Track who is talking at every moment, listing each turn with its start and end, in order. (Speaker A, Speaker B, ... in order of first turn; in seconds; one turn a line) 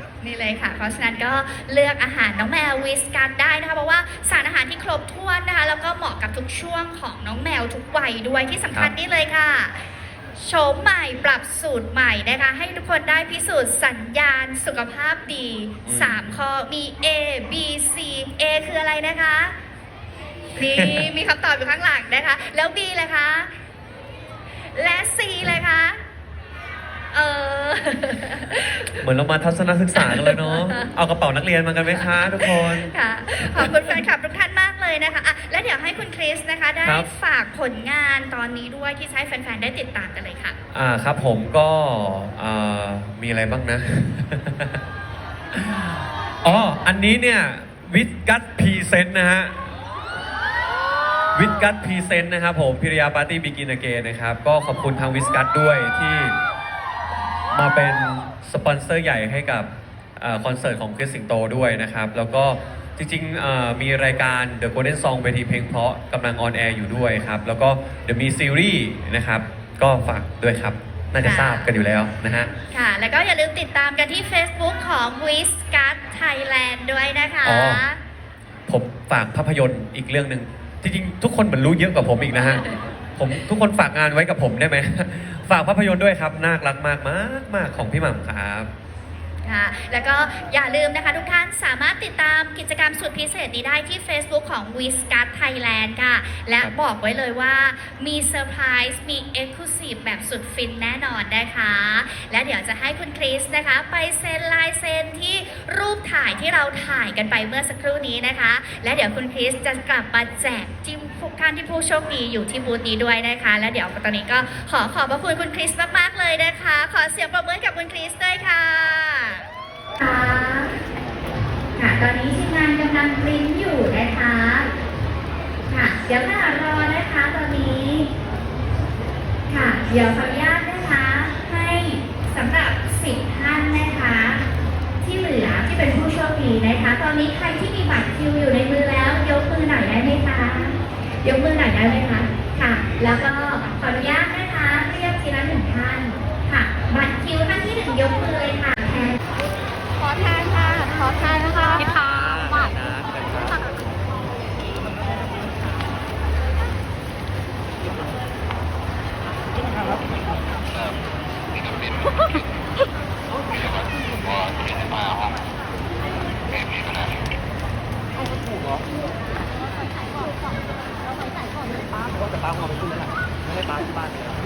Speaker A: 0.2-9.8
Speaker A: 10.4-19.5
Speaker B: 15.8-16.2
Speaker A: 20.5-23.5
Speaker B: 20.6-21.1
Speaker A: 24.7-26.0
Speaker A: 27.1-29.0
Speaker B: 29.0-34.0
Speaker A: 29.9-30.9
Speaker A: 31.9-40.5
Speaker B: 40.7-44.8
Speaker B: 45.5-49.7
Speaker B: 51.3-56.4
Speaker B: 57.5-72.5
Speaker A: 71.2-71.7
Speaker A: 72.7-78.0
Speaker B: 77.4-77.8
Speaker B: 78.7-88.7
Speaker A: 89.4-119.4
Speaker A: 120.0-120.8
Speaker A: 121.8-124.7
Speaker A: 125.7-128.1
Speaker A: 129.5-134.4
Speaker A: 135.0-149.2
Speaker A: 150.0-152.2
Speaker B: 152.0-153.6